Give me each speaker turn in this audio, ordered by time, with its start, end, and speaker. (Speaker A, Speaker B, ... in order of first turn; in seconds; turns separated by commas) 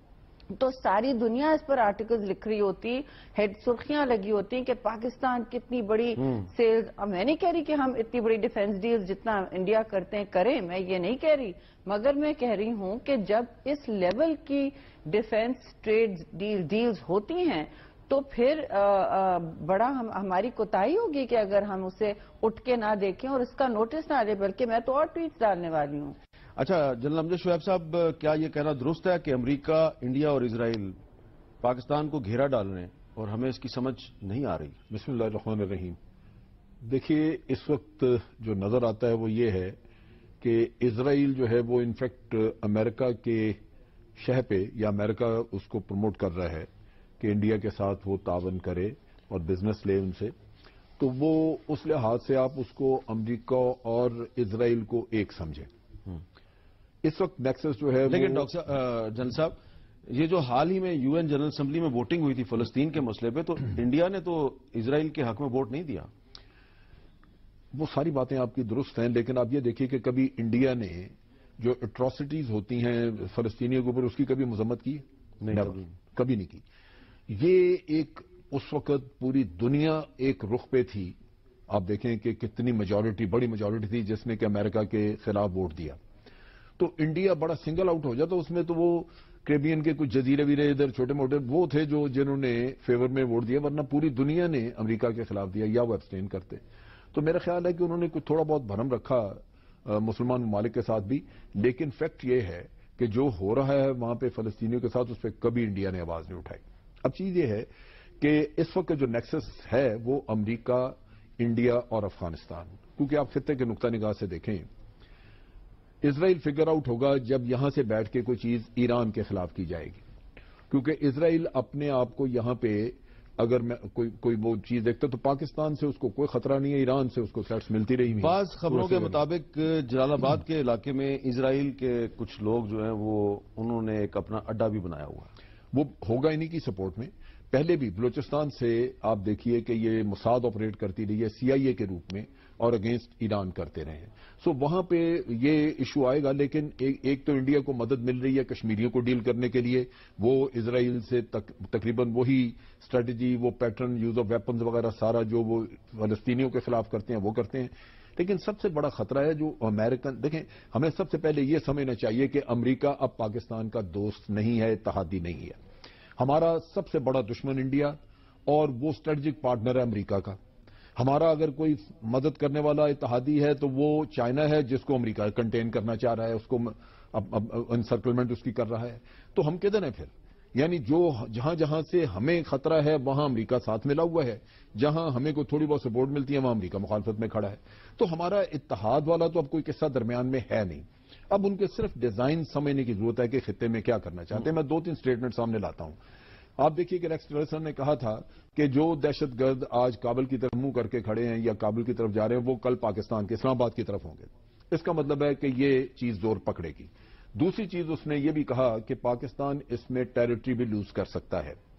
Speaker A: 0.5-26.1, Speaker B: 26.6-31.0, Speaker B: 31.6-34.8, Speaker C: 34.9-36.0, Speaker C: 36.8-39.8, Speaker C: 40.4-43.6, Speaker C: 44.2-46.7, Speaker C: 47.2-50.3, Speaker C: 51.0-55.7, Speaker C: 57.0-58.5, Speaker B: 58.1-59.5, Speaker B: 60.1-66.1, Speaker C: 67.7-76.6, Speaker B: 75.4-75.8, Speaker C: 77.3-81.2, Speaker C: 81.7-86.0, Speaker C: 86.8-96.6, Speaker C: 97.1-107.7, Speaker C: 108.2-114.7, Speaker C: 116.0-120.0, Speaker C: 120.7-129.2, Speaker B: 128.2-135.3, Speaker C: 135.7-165.6, Speaker C: 166.2-167.9, Speaker C: 168.5-170.4, Speaker C: 170.9-196.0, Speaker C: 196.6-211.6